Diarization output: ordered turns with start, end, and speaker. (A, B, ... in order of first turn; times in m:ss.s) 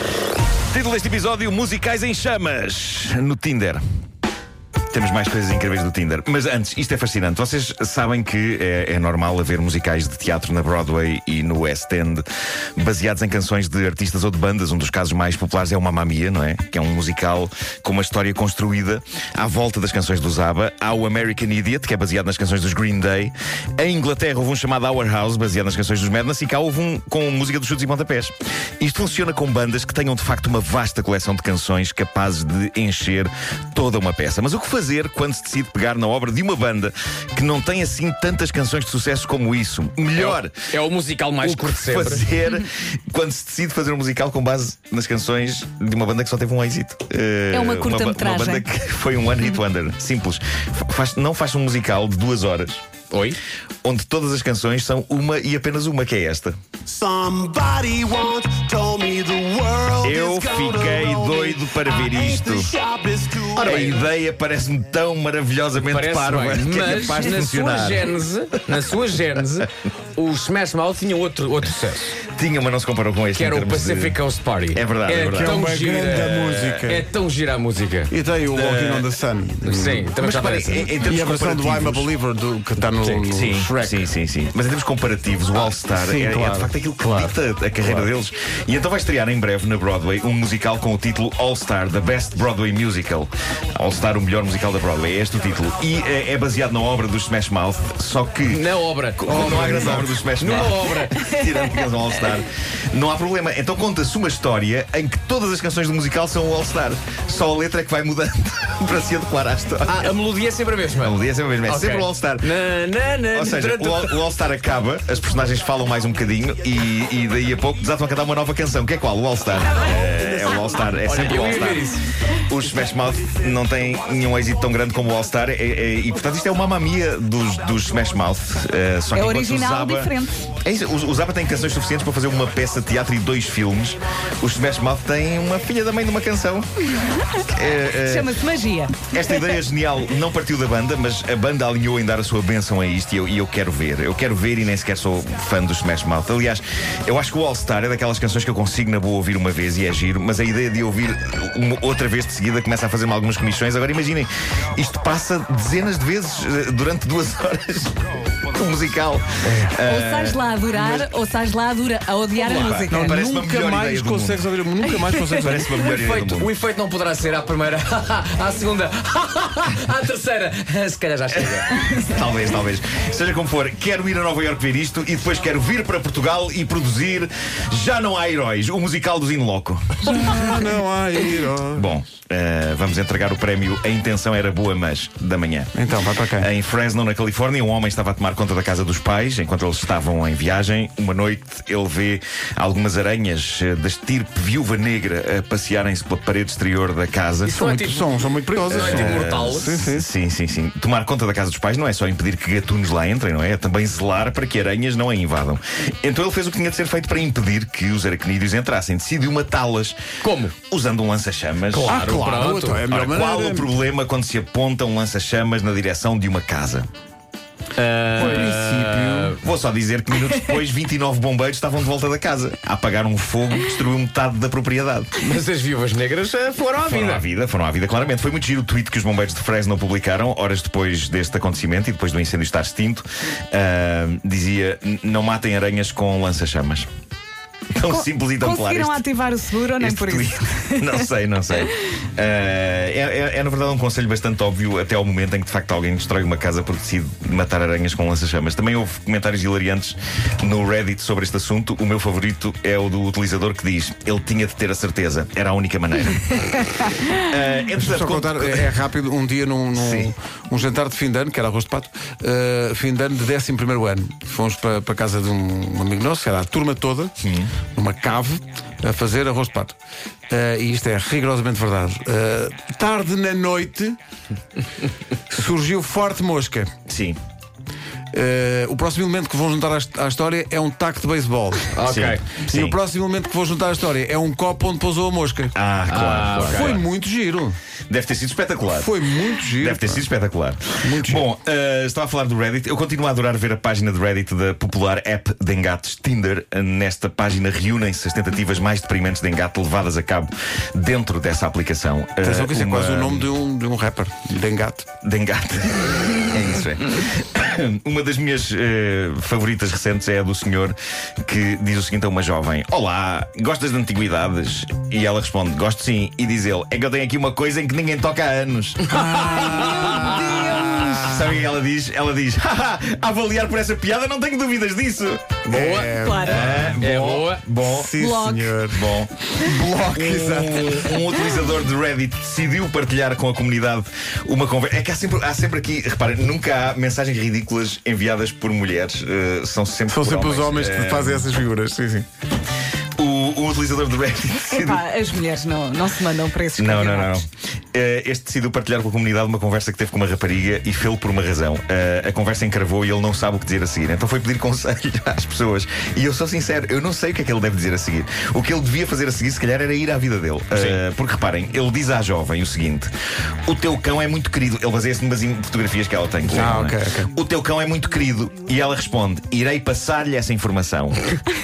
0:00.7-0:03.8 A
0:04.9-0:12.2 A
0:12.8-0:40.6 A
0:40.2-0:42.3 B
0:41.4-0:52.8 A
0:47.5-0:48.7 C
0:53.1-0:53.4 B
0:53.8-0:56.6 A
0:56.9-1:03.9 D
1:00.0-1:02.7 A
1:03.6-1:08.2 A
1:03.6-1:04.0 B
1:05.8-1:12.2 B
1:12.3-1:14.2 A
1:13.3-1:18.1 B
1:14.7-1:15.6 A
1:15.3-1:17.1 E
1:18.1-1:24.0 E
1:18.5-1:19.1 A
1:19.6-1:20.8 B
1:20.2-1:22.1 A
1:23.0-1:23.3 B
1:23.3-1:38.7 A
1:25.5-1:27.4 E
1:38.5-1:41.2 B
1:39.2-1:50.1 A
1:39.2-1:40.2 E
1:49.9-1:54.2 B
1:51.0-1:52.5 A
1:53.3-2:01.9 A
2:01.0-2:02.1 B
2:02.4-2:16.7 A
2:09.1-2:10.5 C
2:17.5-2:18.3 A
2:18.0-2:19.1 C
2:19.1-2:38.0 A
2:38.5-2:40.8 A
2:39.4-2:39.8 E
2:39.8-2:43.2 C
2:42.5-2:44.5 A
2:42.6-2:45.7 E
2:45.4-2:46.5 A
2:45.7-2:51.8 B
2:51.3-3:00.4 A
3:00.1-3:01.9 E
3:01.7-3:05.7 A
3:05.7-3:06.5 E
3:06.4-3:17.6 A
3:17.4-3:19.8 B
3:17.5-3:20.1 E
3:18.7-3:30.0 A
3:30.2-3:30.6 B
3:30.7-3:36.9 A
3:31.7-3:32.9 B
3:31.9-3:33.7 E
3:37.8-3:39.4 B
3:38.1-3:39.4 E
3:39.4-3:45.2 A
3:45.2-3:47.2 B
3:46.8-3:56.9 A
3:57.7-3:59.1 A
3:57.9-4:01.0 C
3:59.8-4:18.7 A
4:17.8-4:27.1 E
4:19.8-4:20.1 A
4:27.2-4:27.6 A
4:27.7-4:29.8 E
4:30.3-4:34.0 E
4:35.3-4:36.8 E
4:36.9-4:37.2 A
4:38.1-4:41.7 E
4:41.7-4:42.2 B
4:41.8-4:42.8 A
4:42.5-4:45.6 E
4:45.6-4:46.8 A
4:45.9-4:46.8 B
4:46.2-4:47.6 E
4:47.9-5:03.3 A
4:48.7-4:50.1 E
4:50.8-4:51.2 E
5:02.2-5:04.9 E
5:05.0-5:18.9 A
5:18.9-5:20.9 E
5:19.1-5:21.1 C
5:20.8-5:25.4 A
5:25.5-5:26.0 B
5:25.5-5:30.9 E
5:26.0-5:26.4 C
5:26.3-5:27.9 A
5:26.8-5:27.4 B
5:27.9-5:28.6 C
5:28.7-5:41.3 A
5:39.9-5:42.1 E
5:43.0-5:44.9 A
5:44.5-5:47.2 C
5:46.6-6:02.9 A
6:00.5-6:00.8 B
6:03.5-6:11.0 A
6:06.2-6:07.1 E